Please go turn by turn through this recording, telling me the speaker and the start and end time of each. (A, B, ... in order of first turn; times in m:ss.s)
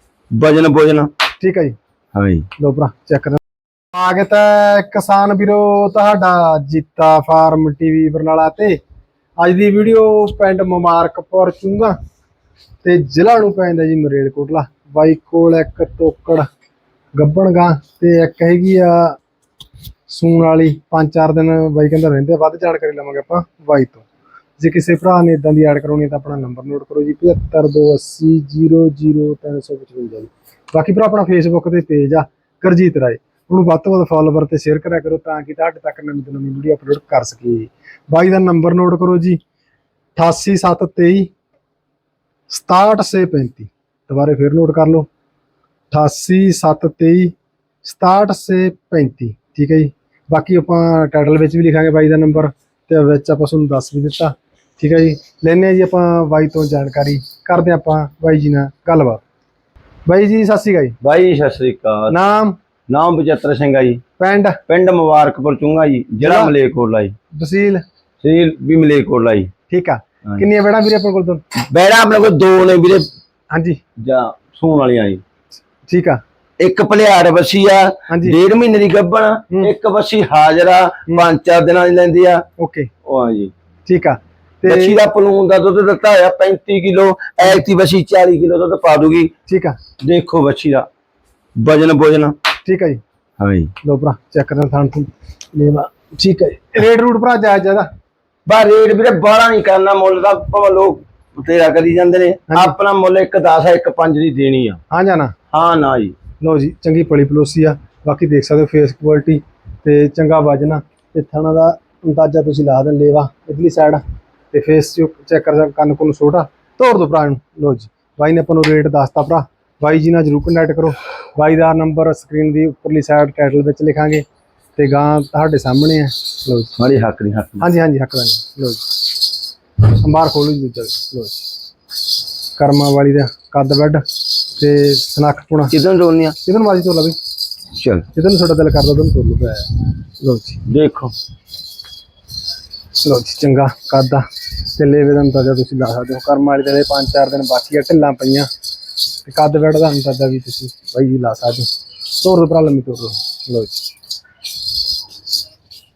0:00.3-0:01.1 A
0:01.4-0:01.8 B
0:02.1-0:02.5 A
0:02.6-0:03.4 B
0:03.9-0:08.8 B
0:09.4-0:12.0 B
0:12.8-0:16.5 B
0:17.2-0:19.2 B
0:20.1-0:24.1 B
0:24.6-0:39.4 B
0:40.2-0:41.3 B
0:42.5-0:45.1 B
0:45.9-0:59.2 B
1:00.1-1:01.0 B
1:01.0-1:02.2 A
1:02.1-1:02.6 B
1:02.9-1:04.0 A
1:04.2-1:04.6 B
1:04.7-1:07.2 A
1:06.2-1:06.5 B
1:07.3-1:07.8 B
1:08.2-1:09.5 A
1:09.7-1:11.4 B
1:11.7-1:13.0 A
1:13.5-1:13.8 B
1:14.0-1:15.2 A
1:15.9-1:16.2 B
1:16.6-1:22.4 A
1:18.1-1:18.4 B
1:22.6-1:22.9 B
1:23.1-1:23.5 A
1:23.9-1:25.0 B
1:24.7-1:29.3 A
1:29.5-1:29.8 B
1:30.0-1:30.9 A
1:31.6-1:32.3 A
1:32.6-1:33.0 B
1:33.4-1:33.7 A
1:33.8-1:37.9 B
1:38.5-1:44.8 A
1:42.5-1:42.8 B
1:44.9-1:45.3 B
1:45.5-1:46.2 A
1:46.4-2:04.2 B
2:04.8-2:06.8 B
2:06.8-2:07.7 A
2:07.6-2:08.8 B
2:09.9-2:11.5 B
2:12.6-2:14.0 B
2:14.6-2:15.7 B
2:15.7-2:16.4 A
2:16.4-2:17.2 B
2:17.8-2:18.1 A
2:18.1-2:20.6 B
2:20.7-2:21.1 A
2:23.0-2:28.5 B
2:29.3-2:33.8 B